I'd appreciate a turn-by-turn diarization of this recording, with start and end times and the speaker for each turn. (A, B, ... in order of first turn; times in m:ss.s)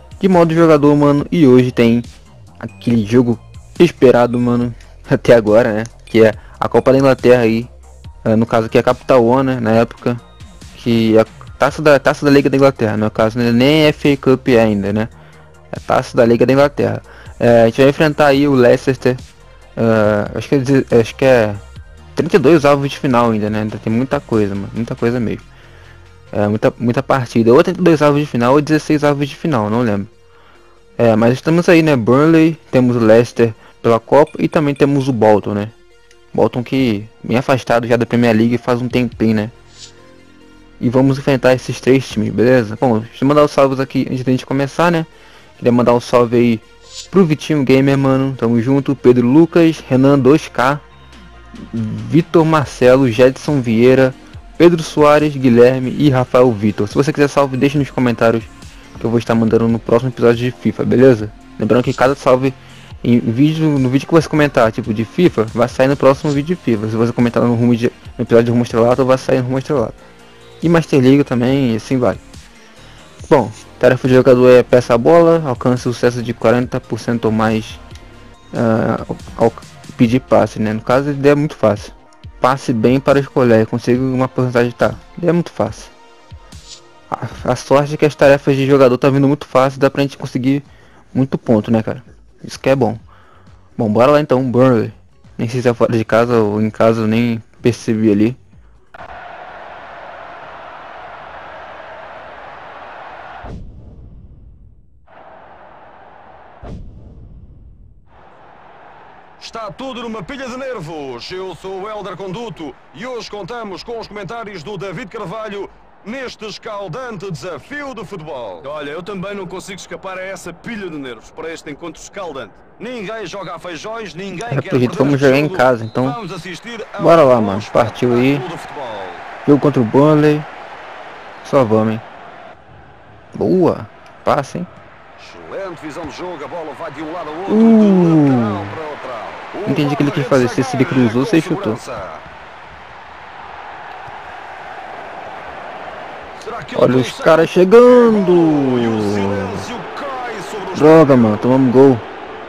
0:00.2-0:02.1 A
0:02.6-0:07.7 A
0:08.2-0:10.2 A
0:10.7-0:15.1 A
0:15.7-0:19.2 A
0:19.8-0:21.6 A
0:22.1-0:25.4 A
0:26.3-0:30.1 A
0:31.0-0:35.7 A
0:36.3-0:39.5 A
0:40.8-0:50.8 A
0:51.6-1:10.0 A
1:10.6-1:12.2 A
1:13.2-1:17.8 A
1:18.5-1:25.9 A
1:27.1-1:33.0 A
1:33.8-1:38.4 A
1:49.4-1:58.7 B
1:58.6-2:02.6 C
2:02.7-2:09.2 B
2:04.4-2:06.2 A
2:07.0-2:08.5 A
2:09.4-2:10.5 A
2:11.4-2:12.0 A
2:13.3-2:14.7 A
2:15.2-2:22.2 B
2:17.5-2:18.8 A
2:19.6-2:21.8 A
2:26.4-2:31.6 B
2:26.7-2:29.7 A
2:30.7-2:32.0 A